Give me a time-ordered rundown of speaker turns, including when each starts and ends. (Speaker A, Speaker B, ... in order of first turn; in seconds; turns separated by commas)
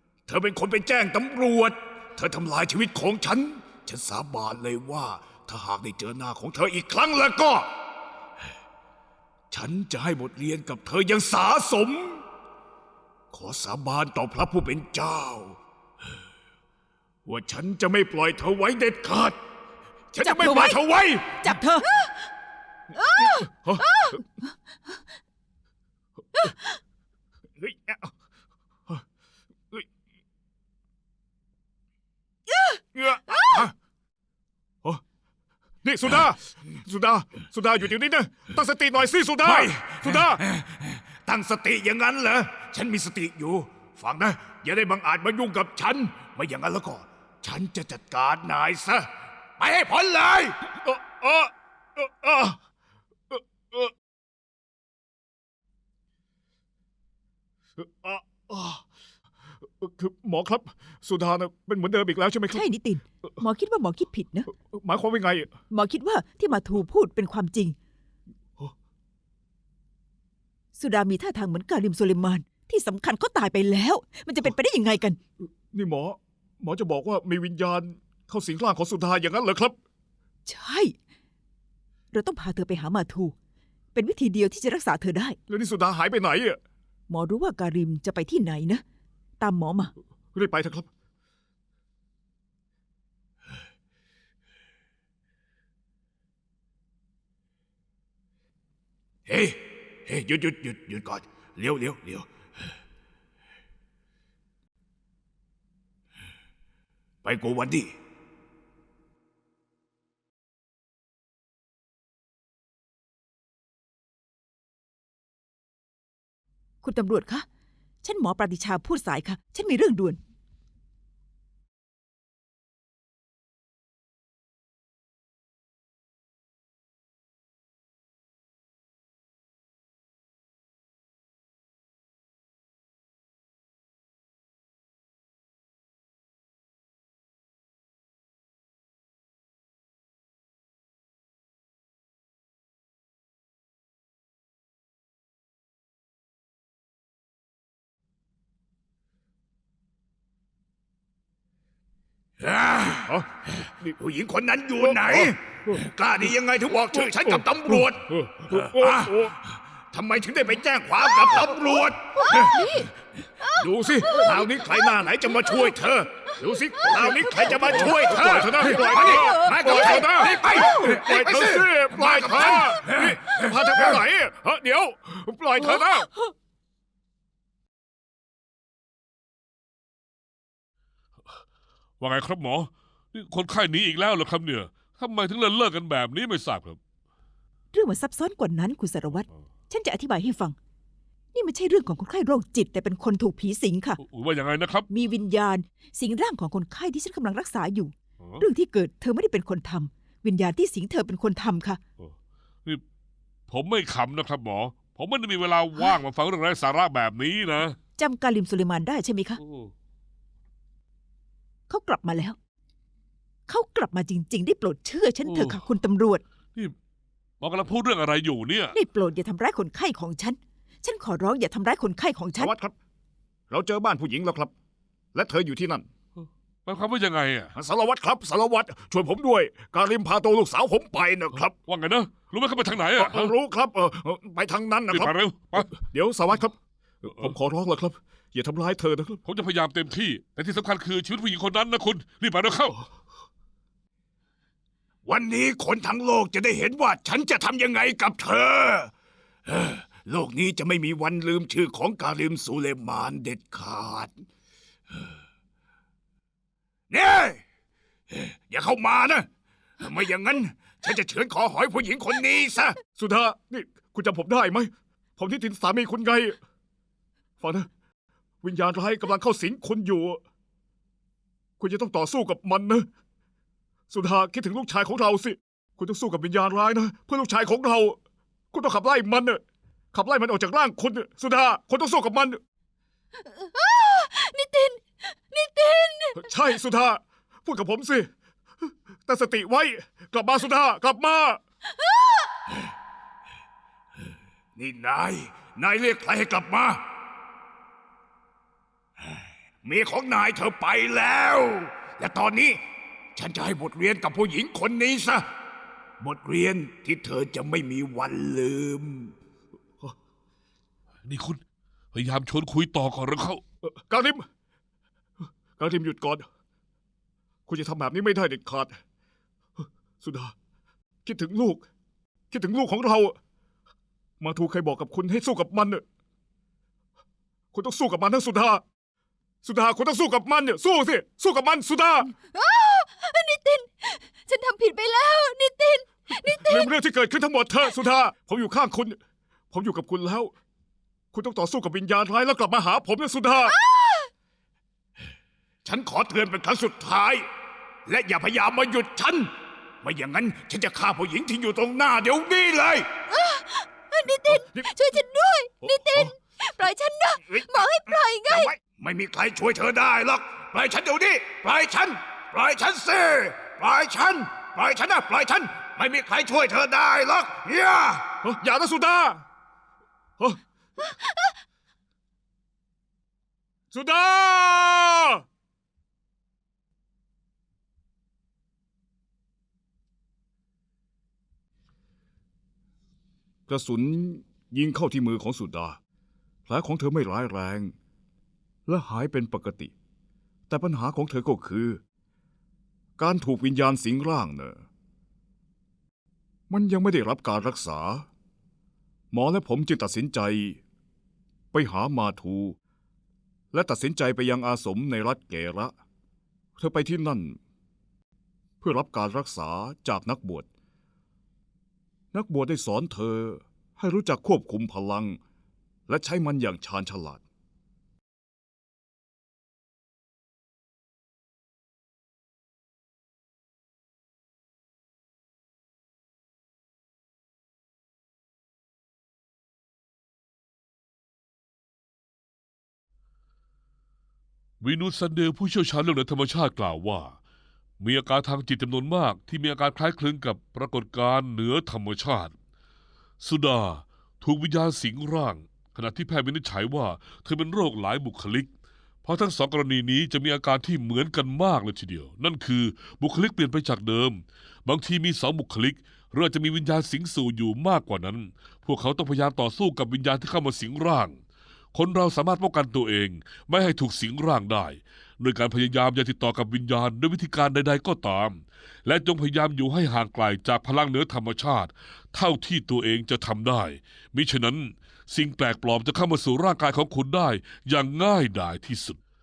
Speaker A: 0.3-1.2, Speaker B: 0.3-6.8, Speaker A: 5.2-7.6, Speaker B: 9.5-12.2, Speaker B: 13.3-15.6, Speaker A: 17.3-17.5, Speaker B: 17.3-19.3, Speaker A: 18.5-19.3, Speaker A: 20.1-21.4, Speaker B: 20.1-21.4, Speaker C: 20.2-21.9, Speaker D: 21.9-22.1, Speaker D: 23.0-24.2, Speaker B: 23.0-24.0, Speaker B: 27.6-28.1, Speaker D: 32.5-33.6, Speaker B: 33.0-33.7, Speaker B: 35.8-40.4, Speaker A: 39.4-50.6, Speaker B: 50.8-52.6, Speaker B: 53.3-53.9, Speaker B: 57.8-58.8, Speaker B: 59.8-62.6, Speaker C: 62.5-64.5, Speaker B: 64.5-65.5, Speaker C: 65.7-67.8, Speaker C: 70.7-75.2, Speaker B: 75.5-79.8, Speaker C: 80.5-80.9, Speaker C: 82.1-83.3, Speaker C: 83.9-85.4, Speaker B: 85.5-86.6, Speaker C: 87.1-88.8, Speaker C: 89.4-89.9, Speaker B: 90.3-90.9, Speaker A: 99.3-102.3, Speaker A: 107.2-107.9, Speaker C: 116.8-117.5, Speaker C: 118.0-120.2, Speaker A: 152.4-153.1, Speaker B: 153.1-153.9, Speaker A: 153.9-159.3, Speaker B: 154.8-155.8, Speaker B: 156.9-159.3, Speaker A: 159.9-162.8, Speaker B: 161.3-161.7, Speaker D: 162.2-164.7, Speaker B: 163.6-164.5, Speaker A: 164.1-173.9, Speaker D: 166.8-170.8, Speaker B: 166.8-176.1, Speaker E: 182.0-186.8, Speaker C: 187.7-190.6, Speaker C: 191.3-194.0, Speaker E: 194.0-194.9, Speaker C: 194.9-201.8, Speaker E: 203.5-207.8, Speaker C: 208.0-209.4, Speaker E: 209.4-209.7, Speaker C: 211.7-212.4, Speaker C: 213.5-216.2, Speaker E: 215.2-215.6, Speaker E: 217.4-218.8, Speaker C: 218.7-222.5, Speaker B: 222.4-222.7, Speaker B: 223.5-224.5, Speaker B: 225.1-225.8, Speaker E: 226.7-227.5, Speaker B: 227.5-231.5, Speaker E: 231.5-233.3, Speaker B: 233.0-239.2, Speaker E: 234.9-235.7, Speaker E: 239.2-242.8, Speaker A: 245.1-248.9, Speaker A: 249.5-254.2, Speaker A: 256.9-257.4, Speaker A: 258.1-259.3, Speaker A: 259.8-262.8, Speaker B: 262.9-266.4, Speaker B: 267.4-267.7, Speaker B: 268.4-270.2, Speaker B: 271.6-272.9, Speaker B: 273.9-278.0, Speaker B: 278.5-279.4, Speaker B: 279.9-282.4, Speaker D: 283.2-286.2, Speaker B: 286.1-288.1, Speaker B: 289.0-291.4, Speaker D: 291.7-292.3, Speaker A: 294.6-296.8, Speaker A: 299.6-302.6, Speaker A: 303.1-305.2, Speaker A: 306.0-309.1, Speaker E: 311.0-311.4, Speaker E: 311.9-313.4, Speaker B: 313.6-314.2, Speaker B: 315.6-316.2, Speaker B: 317.5-318.8, Speaker B: 320.0-320.3, Speaker B: 321.0-321.6, Speaker B: 322.3-323.1, Speaker B: 324.2-325.8, Speaker B: 327.5-328.6, Speaker B: 329.4-332.1, Speaker D: 332.3-336.7, Speaker B: 336.4-339.0, Speaker B: 339.5-340.3, Speaker B: 341.1-343.6, Speaker D: 343.4-344.1, Speaker A: 345.6-347.3, Speaker A: 347.9-349.3, Speaker A: 349.8-352.9, Speaker D: 353.1-358.5, Speaker B: 354.3-354.8, Speaker B: 355.6-356.1, Speaker A: 358.3-368.1, Speaker B: 368.2-369.2, Speaker B: 373.7-375.2, Speaker B: 383.5-385.8, Speaker B: 386.5-387.7, Speaker B: 388.7-389.7, Speaker B: 390.5-391.8, Speaker B: 393.0-394.6, Speaker B: 396.5-398.1, Speaker B: 399.1-400.6, Speaker B: 401.5-402.6, Speaker B: 403.5-405.7, Speaker B: 406.6-407.4, Speaker B: 408.6-410.5, Speaker B: 412.1-415.2, Speaker B: 415.9-417.2, Speaker E: 434.6-437.1, Speaker E: 437.8-442.3, Speaker E: 443.2-448.5, Speaker E: 449.0-461.2, Speaker E: 461.7-479.0